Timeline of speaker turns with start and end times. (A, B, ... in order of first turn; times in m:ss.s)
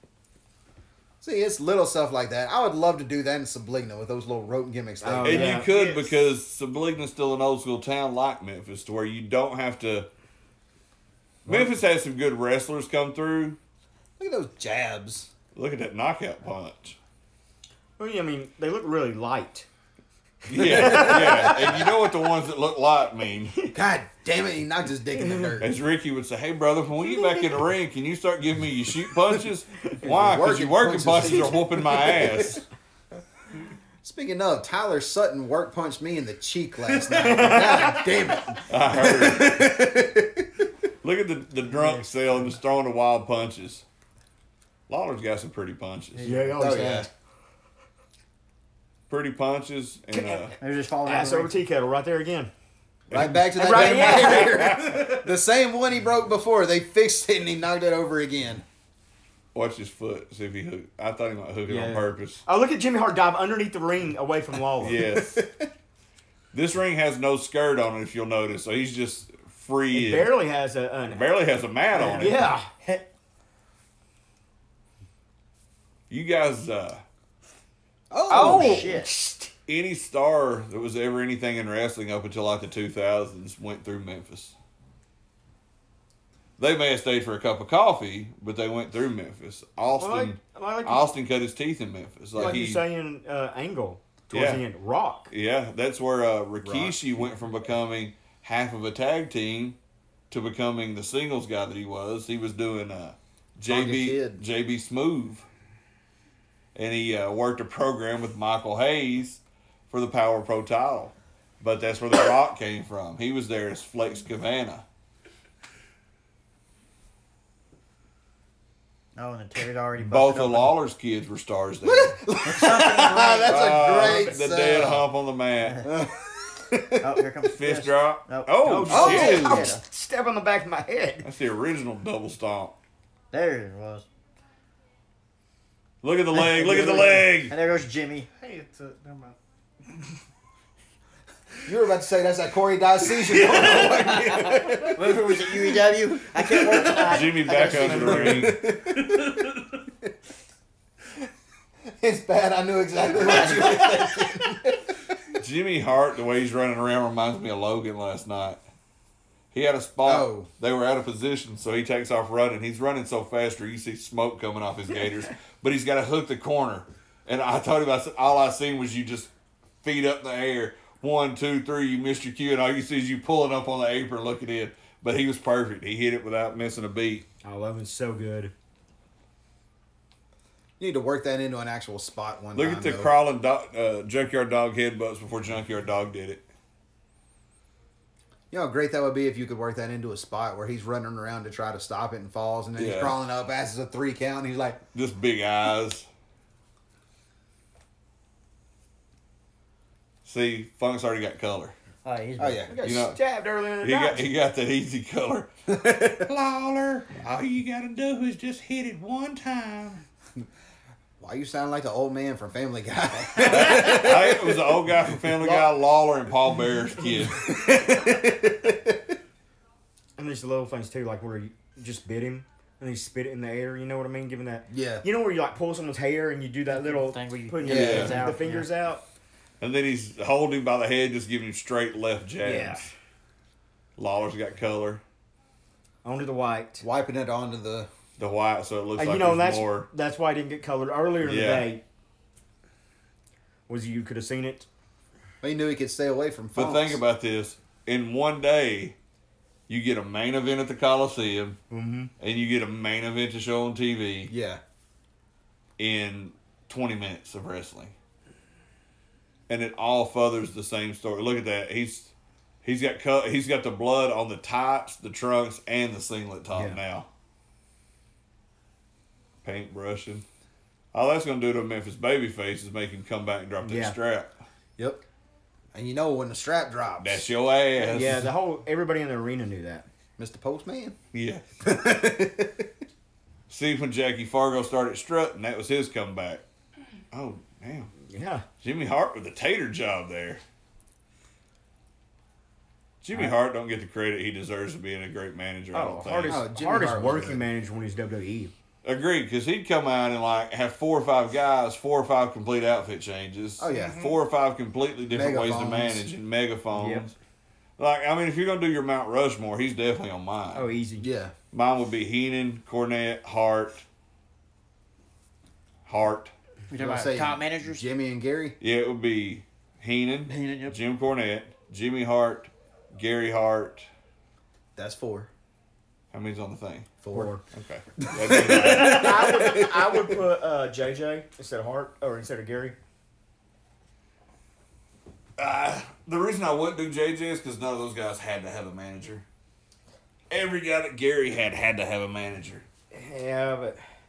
0:01.2-0:05.7 A
0:05.0-0:05.7 B
0:05.2-0:10.1 C
0:05.7-0:06.0 D
0:11.4-0:13.6 C
0:14.2-0:15.3 A
0:15.6-0:17.0 C
0:18.0-0:19.7 B
0:20.5-0:23.5 C
0:20.5-0:21.8 B
0:20.7-0:21.8 A
0:23.7-0:25.7 A
0:25.2-0:25.5 B
0:25.6-0:32.6 C
0:30.0-0:32.6 A
0:34.0-0:40.6 A
0:37.1-0:38.1 B
0:38.7-0:39.7 C
0:41.0-0:43.8 C
0:41.7-0:42.0 D
0:44.9-0:46.4 C
0:46.1-0:46.6 D
0:46.2-0:47.1 B
0:46.6-0:47.1 A
0:49.1-0:50.5 C
0:50.1-0:50.5 B
0:50.6-0:51.6 D
0:51.0-0:52.5 B
0:53.1-0:58.6 A
0:53.1-0:55.2 C
0:53.5-0:54.7 B
0:59.5-1:02.4 C
1:01.7-1:05.0 B
1:04.8-1:05.4 C
1:05.2-1:05.7 A
1:06.5-1:10.3 C
1:09.9-1:11.2 B
1:11.1-1:12.4 C
1:11.9-1:13.1 D
1:12.1-1:12.7 B
1:16.1-1:17.0 C
1:18.1-1:18.9 A
1:18.3-1:19.5 B
1:18.3-1:19.1 D
1:19.7-1:24.6 C
1:26.6-1:32.8 C
1:30.0-1:31.1 B
1:32.4-1:32.6 A
1:32.4-1:35.3 B
1:34.3-1:34.6 C
1:35.3-1:39.8 C
1:36.6-1:37.2 A
1:40.3-1:45.4 C
1:43.6-1:44.4 A
1:46.8-1:54.8 C
1:59.2-2:00.7 D
2:00.0-2:02.2 C
2:01.8-2:05.0 A
2:02.4-2:03.6 D
2:03.5-2:05.8 C
2:05.6-2:05.9 D
2:05.8-2:07.2 A
2:07.0-2:09.8 D
2:07.6-2:09.7 C
2:08.6-2:11.3 B
2:08.9-2:09.7 A
2:11.2-2:12.8 C
2:13.3-2:14.1 D
2:16.0-2:17.5 C
2:16.3-2:18.3 D
2:18.4-2:19.4 E
2:21.6-2:25.1 A
2:23.1-2:24.9 E
2:24.4-2:28.4 D
2:26.5-2:27.2 E
2:27.0-2:28.6 C
2:27.7-2:29.5 A
2:29.0-2:29.5 E
2:32.0-2:34.9 A
2:33.2-2:33.8 D
2:35.4-2:38.6 C
2:39.5-2:49.3 C
2:40.0-2:40.5 A
2:49.8-2:57.3 C
2:57.4-2:58.5 B
3:00.8-3:03.1 A
3:02.5-3:06.4 C
3:08.5-3:14.8 A
3:12.8-3:13.2 C
3:14.9-3:16.1 C
3:20.2-3:21.7 C
3:22.0-3:22.7 D
3:22.4-3:22.7 A
3:22.7-3:24.3 B
3:22.8-3:23.2 C
3:23.8-3:30.0 C
3:31.2-3:35.6 A
3:33.4-3:37.5 C
3:37.3-3:39.1 A
3:40.2-3:49.0 B
3:44.7-3:45.0 A
3:46.7-3:48.7 D
3:47.6-3:48.2 A
3:47.7-3:48.3 C
3:49.6-3:52.9 C
3:52.4-3:52.9 B
3:54.0-3:55.0 C
3:56.0-3:56.8 B
3:56.8-3:57.9 A
3:58.2-3:59.9 C
3:59.0-4:01.8 B
4:01.2-4:01.7 C
4:03.7-4:04.7 B
4:05.4-4:07.0 A
4:06.6-4:08.9 C
4:09.7-4:11.6 C
4:11.7-4:12.1 B
4:12.2-4:14.3 C
4:14.3-4:14.6 A
4:15.8-4:17.9 C
4:19.5-4:22.1 C
4:22.6-4:27.1 C
4:26.5-4:26.8 B
4:29.4-4:30.2 C
4:30.9-4:34.3 C
4:33.6-4:34.0 B
4:34.8-4:35.0 A
4:35.7-4:37.3 A
4:37.0-4:38.3 C
4:37.8-4:39.9 B
4:40.2-4:41.0 A
4:41.1-4:41.4 C
4:41.6-4:42.7 A
4:43.5-4:46.4 C
4:47.1-4:47.9 C
4:48.1-4:48.4 B
4:48.6-4:50.4 C
4:53.0-4:56.4 C
4:55.7-4:58.5 B
4:56.2-4:57.4 A
4:58.8-5:07.2 C
5:03.6-5:04.0 A
5:03.7-5:04.1 E
5:05.1-5:06.1 A
5:06.7-5:07.1 B
5:07.8-5:10.7 C
5:10.5-5:11.1 B
5:11.0-5:11.3 A
5:11.5-5:13.8 C
5:15.9-5:16.3 C
5:16.7-5:17.9 D
5:16.8-5:18.6 A
5:18.6-5:23.9 C
5:20.3-5:20.8 D
5:24.8-5:25.3 A
5:26.1-5:26.9 C
5:27.0-5:27.4 A
5:27.1-5:27.4 B
5:27.5-5:29.5 C
5:28.1-5:30.0 A
5:28.6-5:32.8 B
5:35.4-5:39.2 C
5:40.3-5:42.6 C
5:42.9-5:43.8 B